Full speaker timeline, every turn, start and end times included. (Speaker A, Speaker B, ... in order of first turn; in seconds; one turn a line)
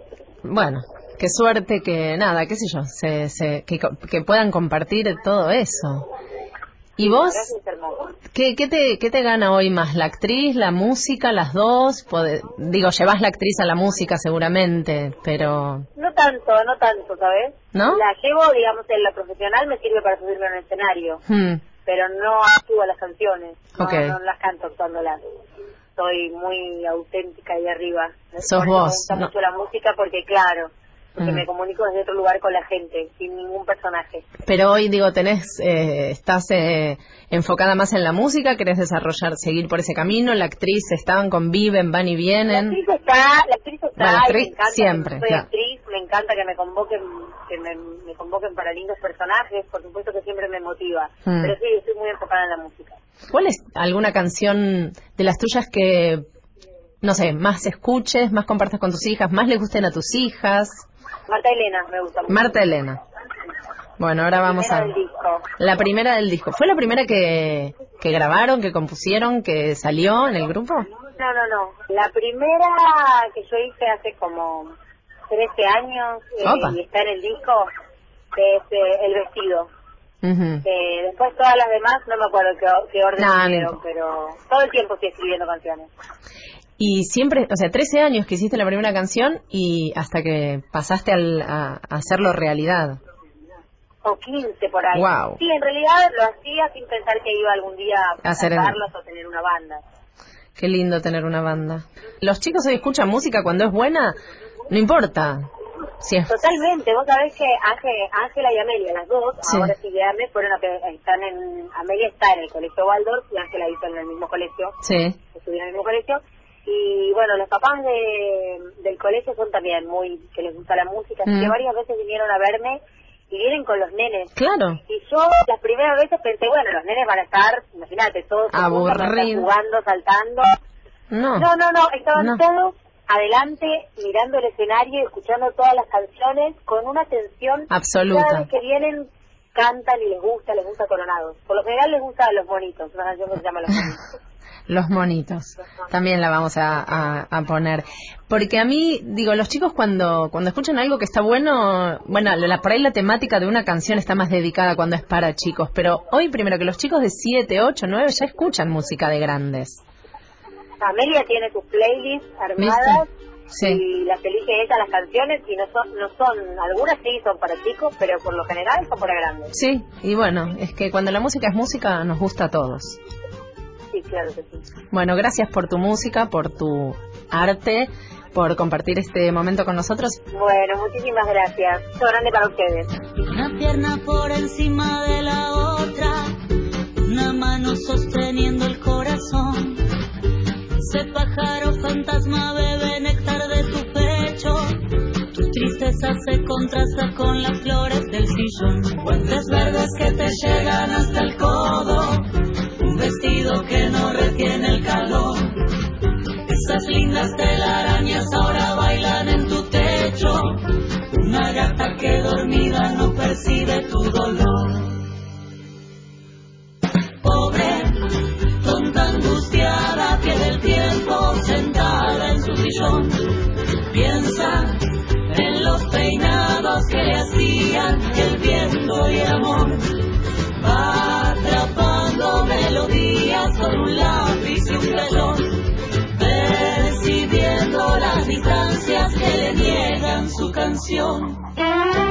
Speaker A: 0.4-6.1
Speaker A: 7.0-7.5
Speaker B: 7.0-8.1
Speaker A: 8.3-15.9
Speaker B: 15.9-21.2
Speaker A: 17.7-18.0
Speaker A: 21.2-21.6
Speaker B: 21.8-25.2
Speaker A: 23.8-24.2
Speaker B: 26.0-34.2
Speaker A: 28.4-29.3
Speaker A: 31.2-31.4
Speaker A: 34.4-42.8
Speaker B: 42.5-53.0
Speaker A: 44.0-45.5
Speaker A: 51.2-51.5
Speaker A: 53.3-56.2
Speaker A: 57.0-60.8
Speaker B: 61.3-62.6
Speaker A: 62.3-63.0
Speaker A: 64.0-64.9
Speaker B: 64.4-65.5
Speaker A: 65.6-70.9
Speaker B: 71.2-74.7
Speaker B: 75.3-77.7
Speaker A: 76.4-76.8
Speaker B: 78.3-79.7
Speaker A: 80.2-80.6
Speaker B: 80.6-85.9
Speaker A: 83.2-83.8
Speaker A: 86.8-93.0
Speaker B: 94.0-99.8
Speaker A: 94.9-95.4
Speaker A: 98.2-98.8
Speaker A: 100.6-104.2
Speaker A: 104.7-105.5
Speaker A: 106.0-106.3
Speaker B: 106.3-114.7
Speaker A: 109.4-109.7
Speaker A: 114.8-115.2
Speaker B: 115.3-124.3
Speaker A: 121.2-121.5
Speaker A: 124.3-124.8
Speaker B: 124.8-130.5
Speaker A: 128.5-129.5
Speaker A: 131.1-131.5
Speaker B: 131.3-144.0
Speaker A: 132.2-132.4
Speaker A: 137.7-138.5
Speaker A: 144.7-159.8
Speaker B: 160.8-163.1
Speaker A: 162.6-163.8
Speaker B: 163.6-169.5
Speaker A: 169.5-173.0
Speaker B: 173.9-174.6
Speaker A: 174.9-180.2
Speaker B: 180.3-182.9
Speaker C: 183.4-186.1
Speaker C: 187.1-189.6
Speaker C: 190.8-194.5
Speaker C: 195.5-202.1
Speaker C: 202.9-205.3
Speaker C: 206.5-210.3
Speaker C: 211.2-214.4
Speaker C: 217.2-217.6
Speaker C: 218.6-223.0
Speaker C: 223.9-224.4
Speaker C: 225.4-229.7
Speaker C: 230.6-235.4
Speaker C: 236.2-241.3